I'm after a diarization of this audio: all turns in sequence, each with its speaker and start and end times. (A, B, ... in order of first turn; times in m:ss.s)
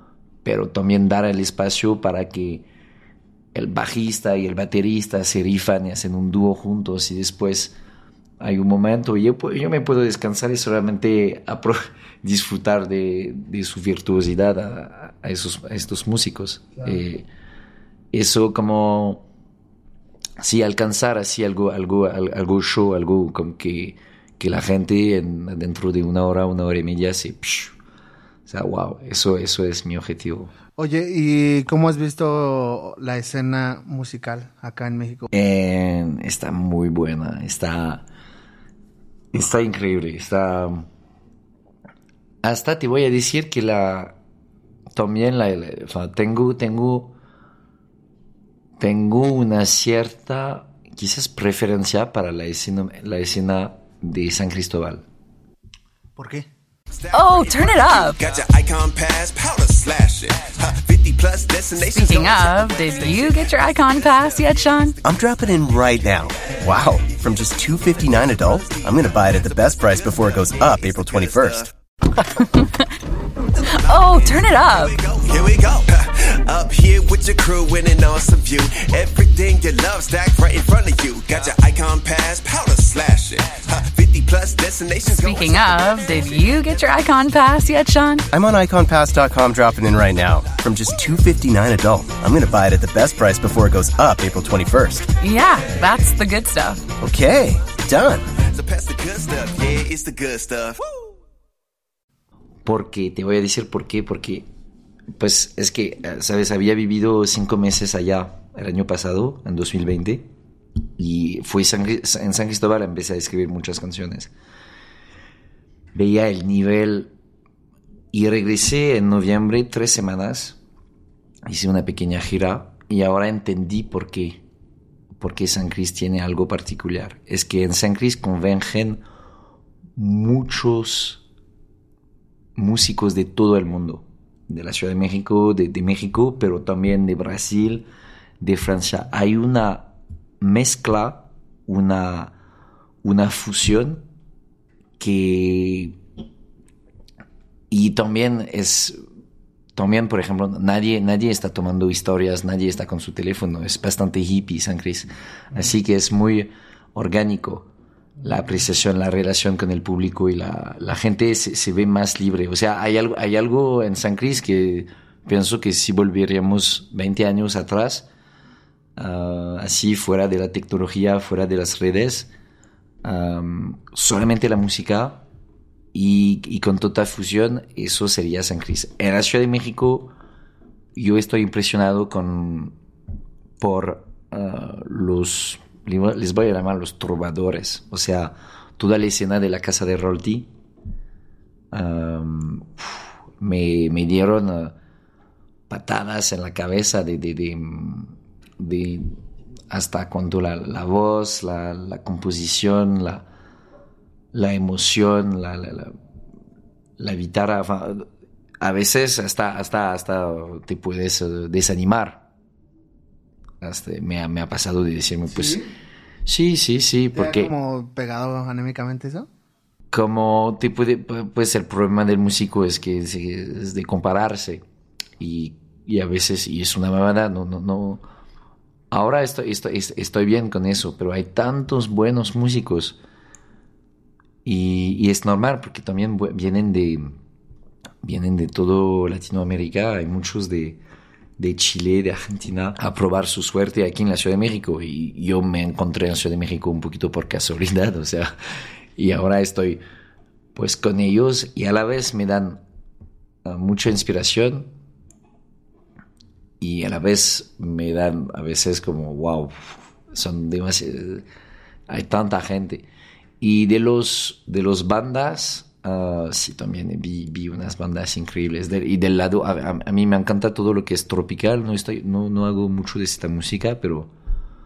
0:00.4-0:02.6 A
0:03.5-0:07.7 A
0:08.4-0:17.3 A
0:18.1-0:19.3 A
0:20.4-0:27.8 A
0:28.5-0:30.5 A
0:30.8-0:35.3 B
0:35.3-0:38.0 A
0:39.3-0:40.9 A
0:42.4-0:44.2 A
0:44.9-0:47.1 A
0:48.8-0:55.0 A
0:56.2-0:56.5 B
0:57.0-1:04.4 C
0:57.1-0:58.2 D
1:01.9-1:05.0 D
1:05.0-1:11.7 E
1:10.9-1:11.6 C
1:13.6-1:26.9 C
1:13.7-1:15.0 D
1:25.1-1:28.3 D
1:28.3-1:35.1 E
1:35.2-1:36.9 D
1:37.0-1:38.2 E
1:38.5-1:40.8 C
1:42.6-1:44.5 A
1:45.2-1:50.3 A
1:51.0-1:54.3 A
1:55.9-1:57.1 A
1:58.1-2:00.6 A
2:01.5-2:04.4 A
2:05.2-2:09.0 A
2:10.0-2:11.2 A
2:12.6-2:17.9 A
2:18.4-2:19.9 A
2:20.4-2:22.3 A
2:23.0-2:24.0 A
2:25.0-2:26.0 A
2:27.7-2:29.0 A
2:29.8-2:37.7 A
2:38.2-2:48.1 A
2:49.0-2:52.3 A
2:53.0-2:55.2 A
2:55.9-3:00.1 A
3:01.0-3:02.8 A
3:03.6-3:10.5 A
3:11.7-3:14.8 A
3:15.7-3:19.2 A
3:19.7-3:23.3 A
3:24.3-3:26.0 A
3:27.0-3:28.1 A
3:28.6-3:32.2 A
3:33.6-3:35.6 A
3:35.3-3:35.7 B
3:36.3-3:37.5 A
3:37.1-3:39.3 B
3:39.9-3:44.6 A
3:45.2-3:48.0 A
3:48.9-3:53.0 A
3:54.4-3:57.2 A
3:58.0-4:00.8 A
4:01.4-4:08.3 A
4:09.0-4:09.8 A
4:10.6-4:12.6 A
4:13.4-4:14.7 A
4:16.6-4:21.3 A
4:21.9-4:22.9 A
4:23.4-4:34.1 A